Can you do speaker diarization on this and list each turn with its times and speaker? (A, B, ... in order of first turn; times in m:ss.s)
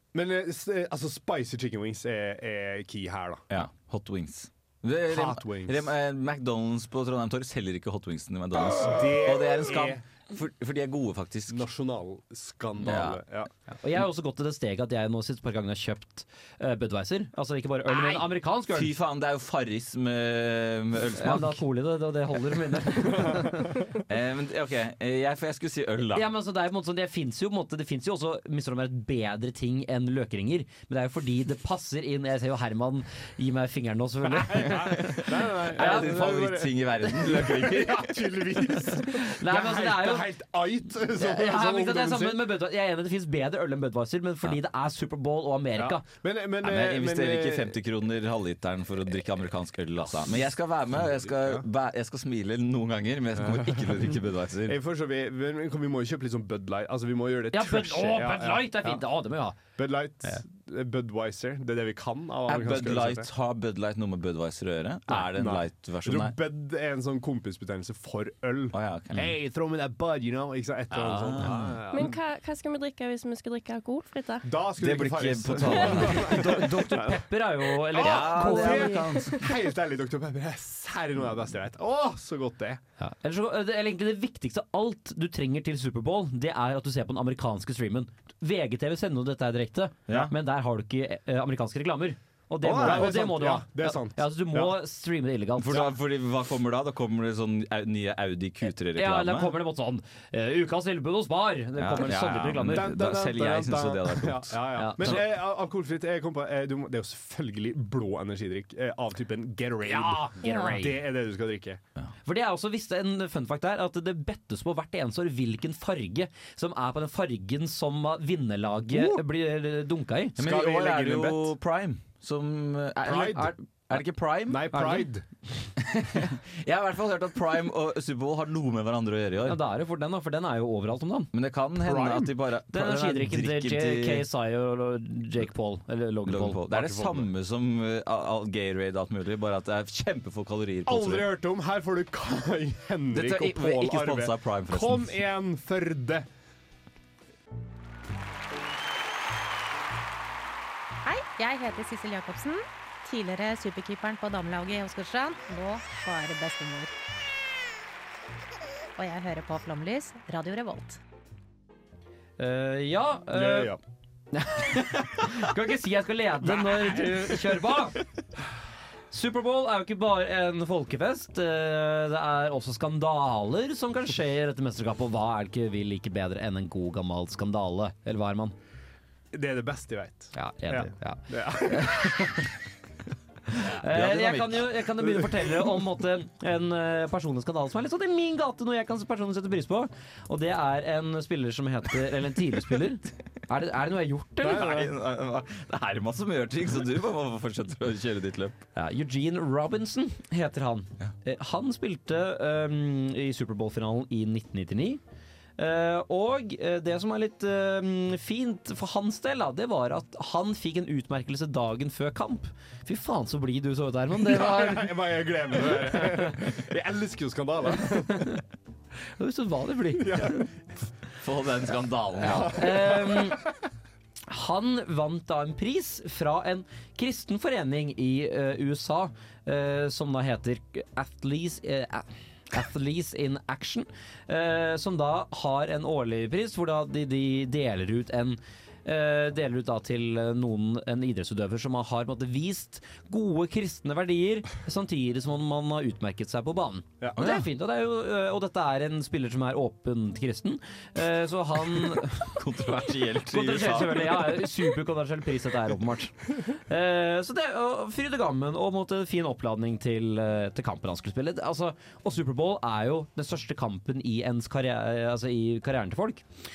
0:00.1-0:03.6 A
0:03.5-0:11.6 B
0:05.1-0:05.9 A
0:08.8-0:10.0 A
0:11.5-0:13.5 A
0:12.8-0:13.2 B
0:13.8-0:18.9 C
0:17.9-0:21.6 B
0:21.2-0:23.8 C
0:23.9-0:26.2 B
0:26.2-0:36.3 C
0:34.3-0:42.5 A
0:35.7-0:38.5 B
0:39.2-0:40.3 C
0:41.1-0:46.0 C
0:45.8-0:47.8 A
0:46.6-0:54.8 B
0:51.0-0:51.6 A
0:53.4-0:54.0 A
0:54.7-0:59.0 A
0:57.5-0:59.6 C
0:59.7-1:03.3 A
1:02.5-1:06.3 B
1:05.4-1:12.2 A
1:08.7-1:09.3 B
1:11.0-1:11.8 B
1:11.9-1:14.5 D
1:14.4-1:17.3 A
1:14.8-1:16.6 B
1:16.0-1:18.9 C
1:17.8-1:22.8 A
1:18.0-1:19.5 B
1:18.5-1:19.6 D
1:23.0-1:35.9 C
1:32.6-1:34.8 A
1:32.7-1:33.1 B
1:35.6-1:39.5 B
1:39.0-1:43.0 C
1:41.8-1:45.2 B
1:42.7-1:51.8 A
1:44.8-1:45.2 C
1:49.8-1:51.0 C
1:50.4-1:50.8 D
1:52.2-2:00.4 C
1:58.9-1:59.2 A
2:00.4-2:04.7 B
2:00.4-2:01.5 A
2:03.0-2:03.5 A
2:04.5-2:05.2 A
2:04.7-2:05.1 C
2:05.8-2:09.6 B
2:09.4-2:11.3 C
2:11.3-2:14.3 B
2:11.8-2:12.3 A
2:12.7-2:17.2 C
2:16.3-2:21.3 B
2:20.9-2:26.3 A
2:23.1-2:25.1 B
2:31.0-2:36.9 E
2:39.0-2:41.0 E
2:42.4-2:43.7 C
2:43.3-2:43.8 A
2:44.3-2:48.0 C
2:49.1-2:58.6 C
2:59.3-3:02.4 A
3:00.3-3:02.5 C
3:03.5-3:14.8 C
3:03.8-3:04.8 B
3:14.4-3:18.6 B
3:18.8-3:25.0 C
3:25.6-3:35.0 C
3:34.2-3:38.4 A
3:37.9-3:38.4 C
3:39.2-3:40.5 C
3:39.9-3:40.5 A
3:41.2-3:42.6 B
3:42.2-3:43.4 C
3:42.2-3:43.4 A
3:44.3-4:12.3 C
4:07.2-4:07.4 B
4:12.0-4:14.5 B
4:13.3-4:26.2 C